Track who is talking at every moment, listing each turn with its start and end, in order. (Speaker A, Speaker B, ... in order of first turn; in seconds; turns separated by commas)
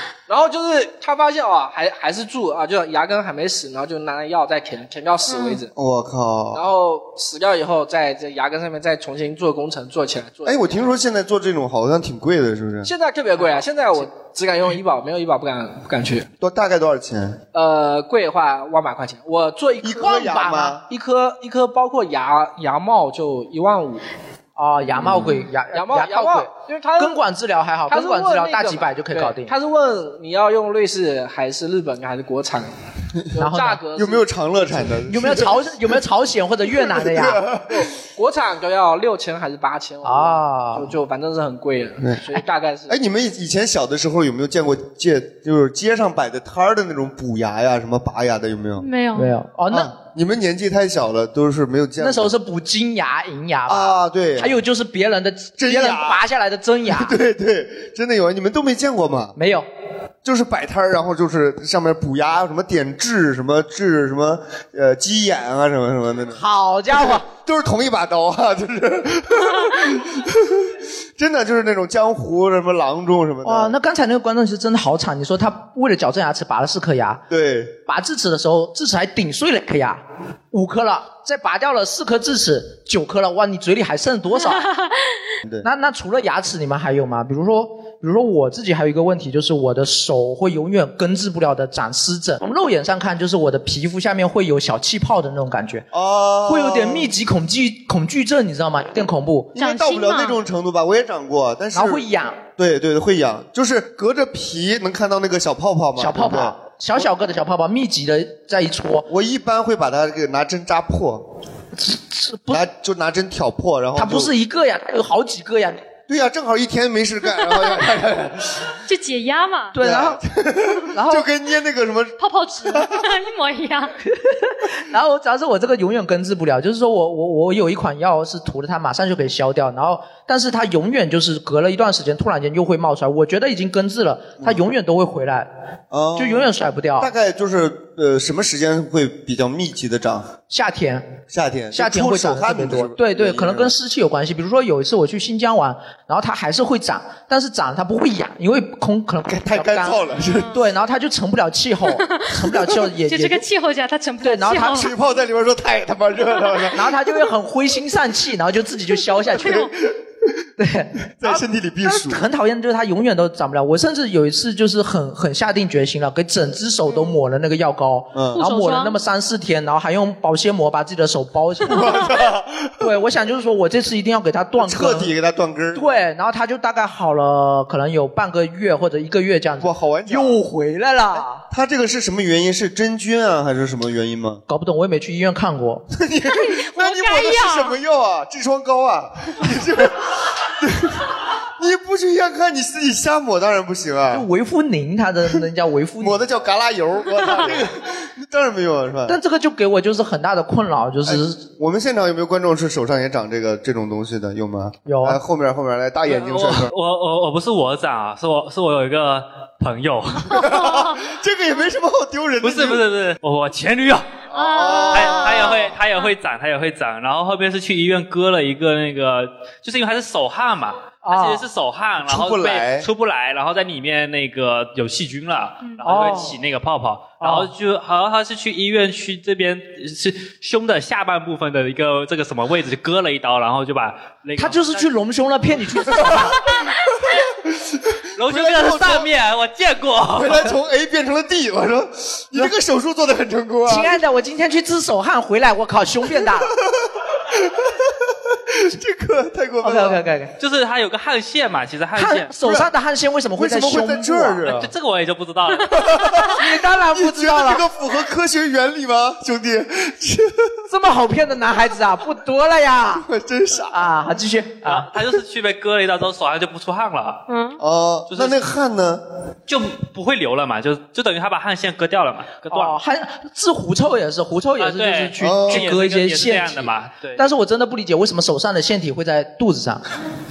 Speaker A: 0.3-5.7, Speaker B: 5.3-5.6, Speaker C: 5.7-6.6, Speaker A: 6.5-10.9, Speaker C: 10.4-12.9, Speaker A: 12.8-16.3, Speaker C: 16.4-17.4, Speaker A: 17.5-24.0, Speaker C: 19.8-20.8, Speaker D: 20.0-20.8, Speaker D: 24.6-29.5, Speaker C: 25.0-25.3, Speaker A: 25.0-27.2, Speaker A: 27.9-32.7, Speaker A: 33.3-34.3, Speaker D: 33.4-33.8, Speaker C: 33.9-35.9, Speaker D: 35.1-37.4, Speaker C: 36.8-37.9, Speaker A: 37.7-43.0, Speaker D: 40.0-40.9, Speaker C: 42.9-48.9, Speaker B: 48.8-49.3, Speaker D: 49.1-49.9, Speaker C: 49.7-52.3, Speaker D: 52.0-57.1, Speaker C: 53.7-54.6, Speaker C: 55.6-56.2, Speaker C: 56.9-59.3, Speaker D: 59.4-59.6, Speaker C: 60.2-73.7, Speaker D: 66.3-67.2, Speaker D: 73.4-77.2, Speaker C: 77.3-77.8, Speaker D: 77.9-84.7, Speaker B: 84.5-84.9, Speaker D: 85.6-95.8, Speaker C: 95.9-97.1, Speaker D: 96.5-99.6, Speaker C: 99.5-106.5, Speaker B: 99.6-100.4, Speaker D: 101.7-102.4, Speaker D: 106.0-109.1, Speaker C: 109.1-111.2, Speaker D: 111.8-112.6, Speaker C: 112.5-114.3, Speaker D: 114.0-115.8, Speaker C: 116.1-118.7, Speaker B: 118.9-119.7, Speaker D: 119.7-120.2, Speaker C: 119.8-122.9, Speaker D: 120.9-121.2, Speaker B: 122.2-123.9, Speaker D: 124.2-135.5, Speaker C: 135.9-140.3, Speaker D: 136.2-137.1, Speaker D: 140.5-141.1, Speaker C: 141.3-143.7, Speaker D: 141.7-153.4, Speaker C: 149.3-150.6, Speaker B: 152.0-154.9, Speaker D: 154.2-154.8, Speaker C: 154.5-156.9, Speaker D: 156.7-159.7, Speaker C: 159.3-159.7, Speaker D: 160.6-172.1, Speaker C: 161.2-162.2, Speaker C: 168.1-168.4, Speaker B: 168.3-169.0, Speaker C: 171.6-172.7, Speaker D: 172.8-175.1, Speaker C: 174.6-175.9, Speaker D: 175.7-181.4, Speaker C: 179.6-180.4, Speaker C: 181.1-184.4, Speaker D: 184.5-185.8, Speaker C: 185.9-194.3, Speaker B: 186.3-187.8, Speaker D: 194.1-196.2, Speaker C: 196.0-199.2, Speaker D: 199.1-201.4, Speaker C: 201.1-206.7, Speaker D: 204.8-205.2, Speaker E: 206.1-210.4, Speaker C: 210.3-212.8, Speaker B: 210.4-210.9, Speaker E: 212.4-214.2, Speaker C: 214.3-215.7, Speaker B: 214.3-216.1, Speaker E: 214.9-234.9, Speaker D: 221.0-221.4, Speaker C: 222.0-222.9, Speaker D: 225.8-226.4, Speaker D: 227.2-227.5, Speaker D: 234.4-236.4, Speaker C: 237.6-239.1, Speaker E: 238.2-240.5, Speaker C: 240.1-244.0, Speaker D: 243.7-246.5, Speaker C: 246.8-247.8, Speaker C: 248.5-250.0, Speaker D: 249.6-250.3, Speaker E: 250.4-252.3, Speaker D: 251.9-254.4, Speaker C: 252.4-252.7, Speaker C: 253.3-254.7, Speaker E: 254.4-255.7, Speaker C: 255.7-260.5, Speaker D: 256.3-257.6, Speaker D: 260.7-263.1, Speaker C: 263.0-263.9, Speaker D: 263.7-264.9, Speaker E: 264.6-267.2, Speaker B: 267.3-267.6, Speaker C: 267.6-269.0, Speaker E: 268.1-268.4, Speaker E: 269.5-272.8, Speaker D: 272.5-279.8, Speaker E: 274.6-277.2, Speaker C: 275.2-275.7